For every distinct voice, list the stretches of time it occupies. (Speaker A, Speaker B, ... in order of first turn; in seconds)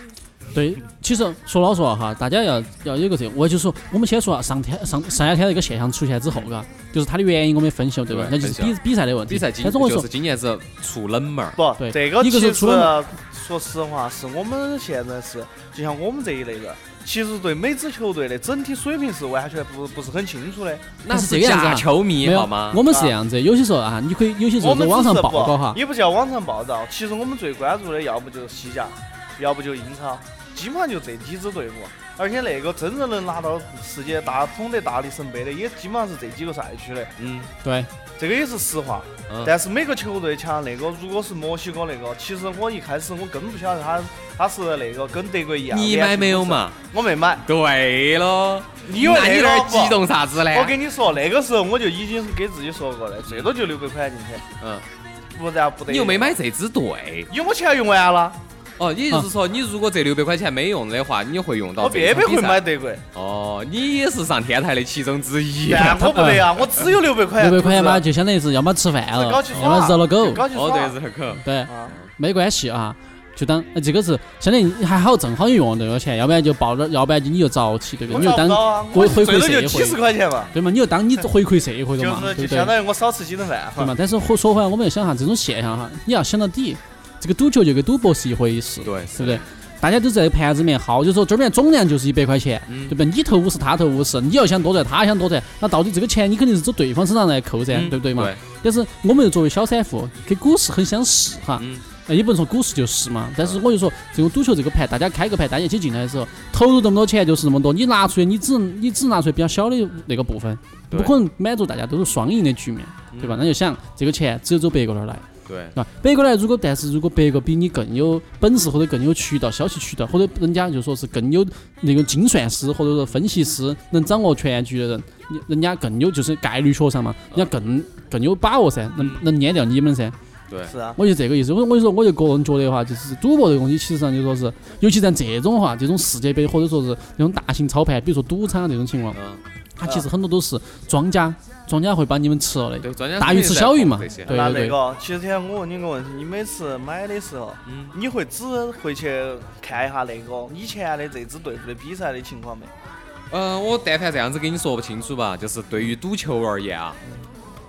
Speaker A: 0.5-10.1, 11.8-12.9, 21.1-25.8, 37.6-37.9, 66.1-66.4, 67.4-70.4, 71.4-82.8, 83.8-130.1, 130.9-139.2, 139.8-144.8
Speaker B: 8.1-11.6, 21.0-22.8, 37.2-37.5, 39.3-39.5, 45.7-46.8, 47.4-50.8, 54.6-54.8, 55.9-57.3, 58.8-66.6, 69.5-69.9, 70.4-72.1, 88.8-89.4, 92.7-93.0, 97.7-98.4, 101.6-101.8, 113.1-113.4, 115.5-115.8, 129.0-129.3, 130.5-130.7, 139.1-139.4, 142.8-144.4, 147.7-147.9, 153.3-157.0
Speaker C: 11.6-20.9, 22.9-23.1, 24.6-37.1, 38.2-47.4, 48.8-54.4, 55.3-56.4, 57.3-58.4, 61.8-63.0, 65.7-68.0, 69.1-71.0, 71.7-71.9, 78.1-80.5, 82.0-84.0, 130.7-131.0, 144.3-152.7